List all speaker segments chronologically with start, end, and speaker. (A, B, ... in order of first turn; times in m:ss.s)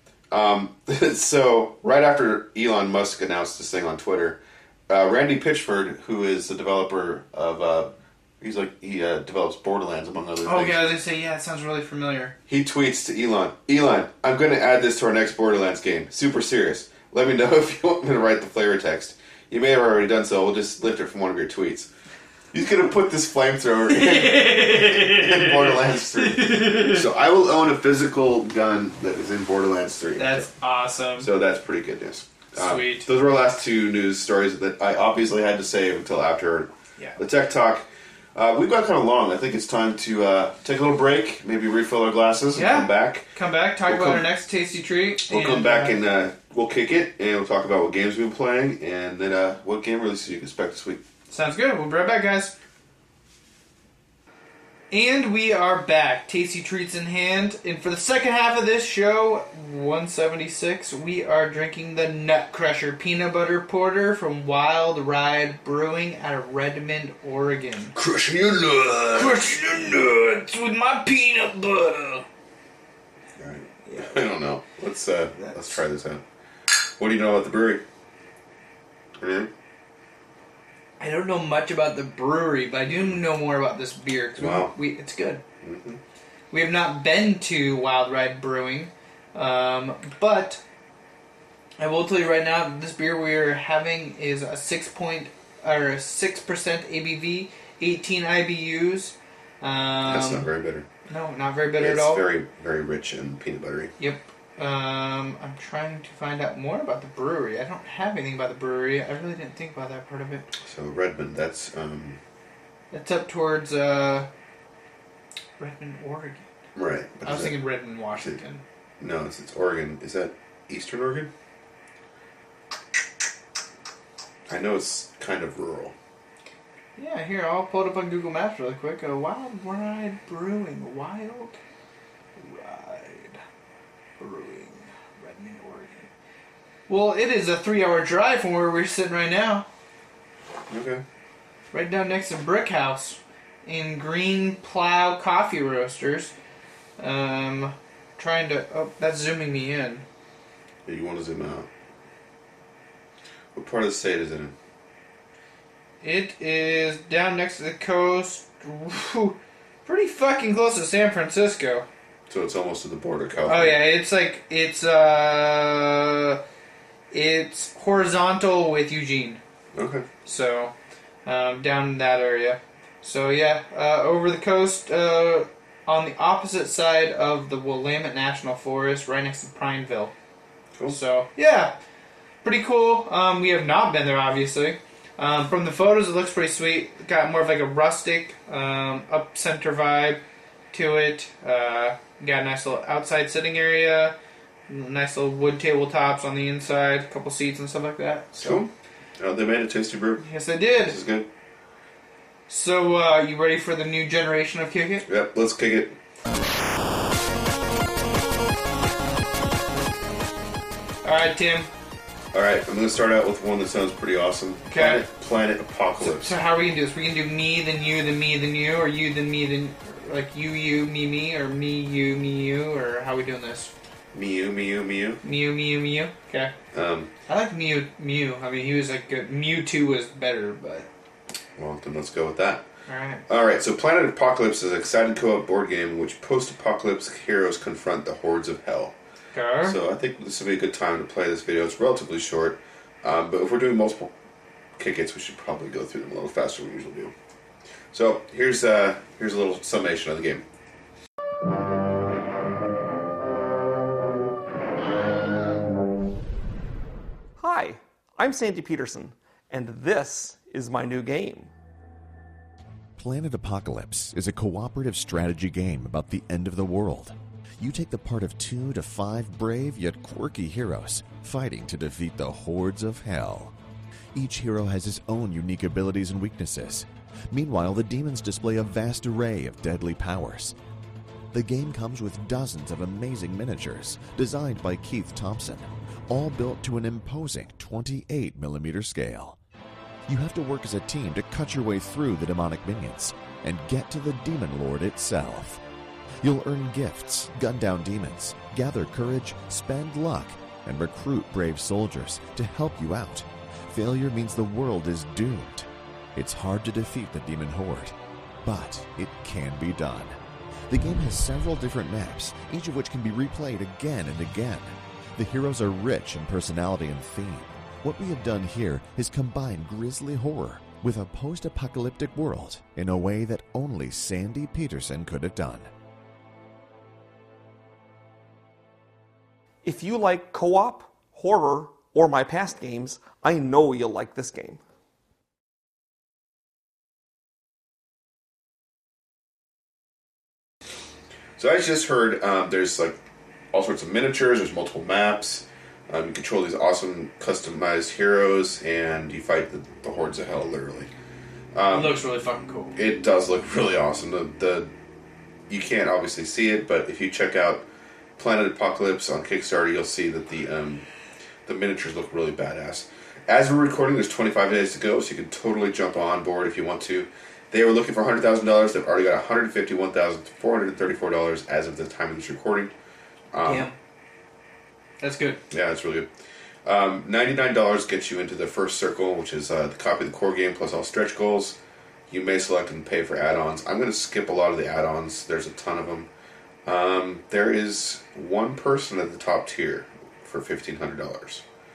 0:00.3-0:10.9 A
0:10.4-0:12.3 B
0:12.5-0:21.9 A
0:22.5-0:30.5 A
0:23.9-0:27.1 B
0:30.2-0:31.3 B
0:31.2-0:43.3 A
0:32.5-0:33.1 B
0:42.5-0:46.0 B
0:43.8-0:44.3 A
0:45.2-0:51.0 A
0:51.3-0:52.5 B
0:54.9-1:08.0 B
1:07.9-1:09.7 A
1:09.1-1:12.2 B
1:13.4-1:16.2 A
1:13.8-1:14.2 B
1:15.3-1:15.8 B
1:17.0-1:17.8 A
1:19.2-1:19.5 A
1:21.0-1:25.4 B
1:24.4-1:24.7 A
1:25.6-1:26.0 A
1:26.5-1:30.6 B
1:31.8-1:40.5 B
1:40.0-1:40.9 A
1:41.1-1:42.2 B
1:41.8-1:43.9 A
1:44.0-1:50.5 B
1:50.5-1:52.2 A
1:52.9-1:54.3 B
1:55.6-1:56.5 B
1:56.7-1:57.6 A
1:57.2-1:58.6 B
1:59.0-2:01.3 A
2:04.5-2:06.0 A
2:07.0-2:11.6 B
2:12.4-2:13.4 B
2:14.2-2:16.1 B
2:16.9-2:19.7 B
2:20.7-2:21.0 A
2:21.7-2:26.3 B
2:27.0-2:30.0 B
2:30.8-2:31.7 A
2:33.5-2:34.5 A
2:36.0-2:41.9 B
2:42.3-2:43.8 A
2:43.5-2:46.4 B
2:47.1-2:49.4 B
2:49.7-2:50.1 A
2:50.2-2:50.7 B
2:51.2-3:00.1 B
3:00.9-3:01.8 B
3:02.4-3:14.2 B
3:14.7-3:18.6 B
3:18.3-3:20.2 A
3:20.2-3:21.0 B
3:20.8-3:21.3 A
3:22.5-3:25.0 B
3:25.1-3:26.0 A
3:31.0-3:31.7 B
3:32.3-3:36.4 A
3:34.7-3:35.0 B
3:36.0-3:43.7 B
3:44.1-3:45.2 A
3:45.2-3:46.5 B
3:46.7-3:47.1 A
3:47.3-3:50.9 B
3:51.6-3:52.6 A
3:52.9-3:53.2 B
3:53.3-3:58.9 A
3:59.3-3:59.8 B
3:59.6-4:04.1 A
4:04.8-4:07.1 A
4:07.9-4:10.4 A
4:17.4-4:21.5 C
4:23.0-4:33.5 D
4:34.1-4:40.5 D
4:41.3-4:49.4 D
4:50.1-4:55.6 D
4:56.2-5:10.2 D
5:10.7-5:25.7 D
5:29.6-5:34.6 C
5:41.4-5:43.0 A
5:43.5-5:50.9 A
5:51.5-5:52.0 A
5:51.7-5:52.7 B
5:52.8-5:54.7 A
5:55.5-5:57.6 A
5:58.2-6:00.8 A
6:01.4-6:12.7 A
6:13.3-6:13.7 A
6:13.4-6:13.8 B
6:15.0-6:15.4 B
6:15.5-6:16.1 A
6:16.6-6:21.6 A
6:22.1-6:26.1 A
6:26.6-6:31.4 A